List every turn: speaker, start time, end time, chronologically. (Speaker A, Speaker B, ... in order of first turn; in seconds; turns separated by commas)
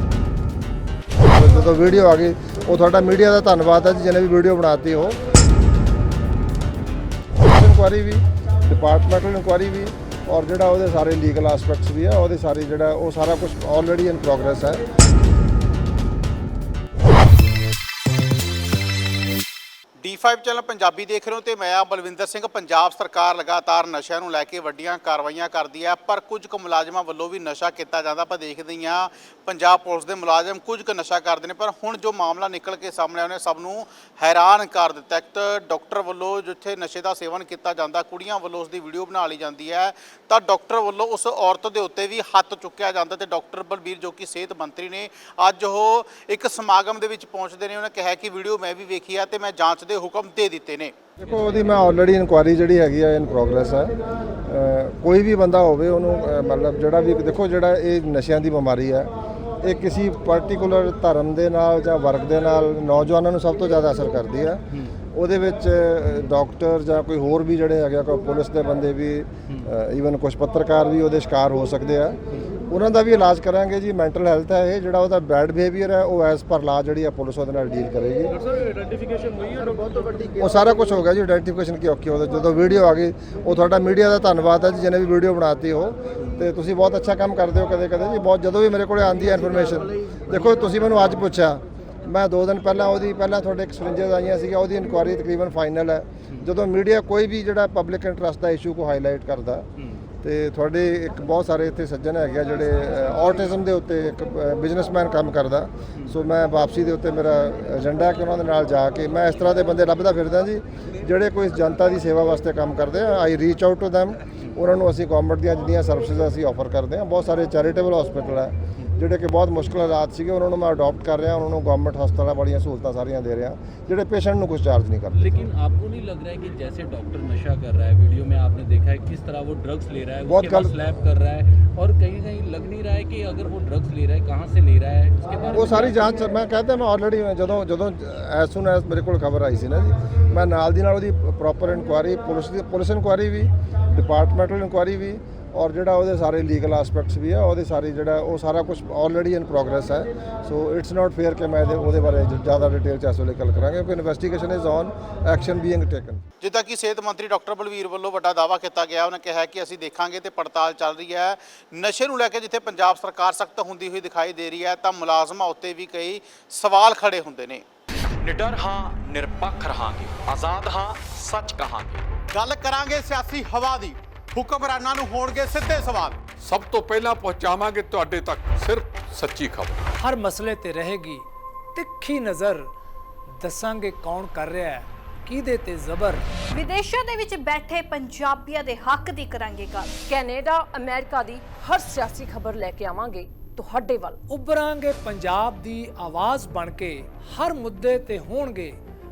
Speaker A: 1.2-5.2, Speaker A: 7.4-14.8, Speaker B: 20.0-50.9, Speaker A: 51.2-53.9, Speaker A: 54.4-59.1, Speaker A: 59.6-64.6, Speaker A: 65.1-78.3, Speaker C: 78.8-79.9, Speaker A: 80.3-99.7, Speaker A: 100.2-125.3, Speaker C: 125.1-136.2, Speaker A: 130.2-130.7, Speaker A: 135.5-156.2, Speaker B: 156.4-167.6, Speaker D: 168.2-172.0, Speaker B: 172.3-176.2, Speaker E: 176.4-179.8, Speaker F: 180.0-182.7, Speaker F: 183.4-186.2, Speaker G: 186.5-189.9, Speaker H: 190.1-194.2, Speaker F: 194.3-198.8